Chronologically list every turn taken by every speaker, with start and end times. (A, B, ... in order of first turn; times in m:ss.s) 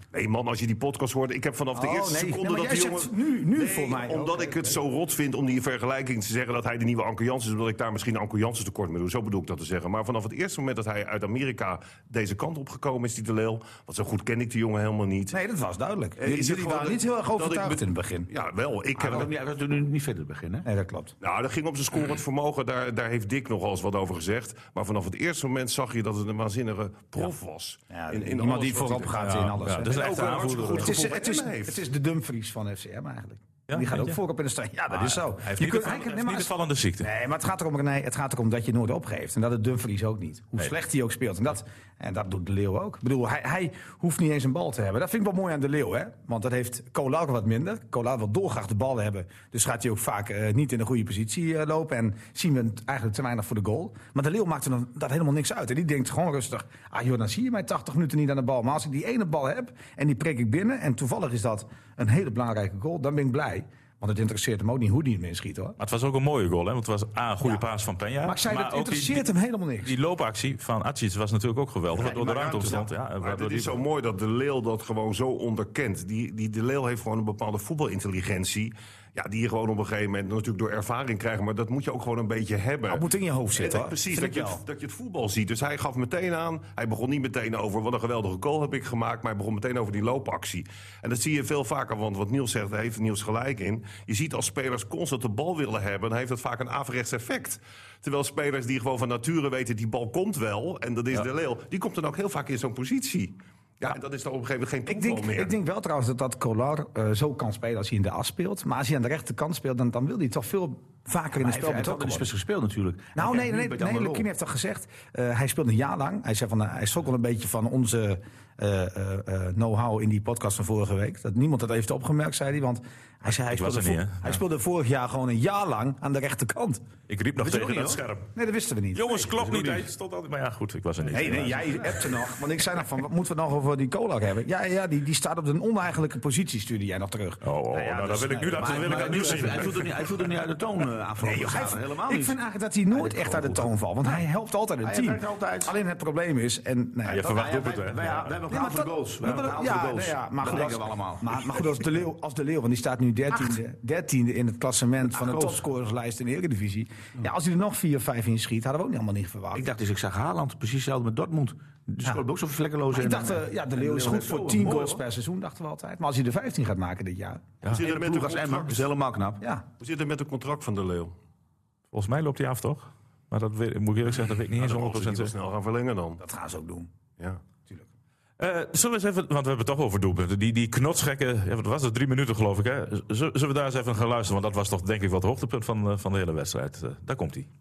0:00.1-0:15.3 A
0:01.7-0:04.8 B
0:15.3-0:18.3 B
0:16.2-0:19.3 A
0:19.0-0:20.6 C
0:19.0-0:19.3 B
0:20.6-0:21.1 B
0:21.2-0:31.8 A
0:27.9-1:05.8 B
0:29.2-0:31.0 D
0:33.7-0:34.2 D
0:34.9-0:37.1 D
1:05.8-1:09.3 D
1:08.2-1:09.9 B
1:09.8-1:13.8 D
1:11.9-1:12.9 C
1:13.2-1:23.0 A
1:22.9-1:24.6 B
1:23.6-1:45.5 A
1:44.8-1:52.3 B
1:51.3-1:54.3 C
1:53.2-2:06.8 B
2:03.5-2:04.4 D
2:07.1-2:08.3 D
2:07.4-2:08.0 C
2:08.3-2:09.2 B
2:08.9-2:12.0 D
2:09.2-2:09.9 C
2:11.1-2:17.4 B
2:17.4-2:19.9 D
2:17.7-2:22.4 C
2:18.3-2:19.7 B
2:21.2-2:27.4 B
2:22.9-2:24.2 C
2:24.8-2:25.7 C
2:27.1-2:28.4 D
2:27.2-2:31.6 C
2:28.5-2:39.6 B
2:35.1-2:35.6 C
2:39.5-2:45.0 C
2:42.9-2:47.4 B
2:47.6-2:48.9 A
2:47.6-2:49.4 C
2:49.8-2:51.1 A
2:51.9-2:55.3 D
2:54.6-2:56.2 A
2:56.2-2:56.9 B
2:58.4-3:07.5 D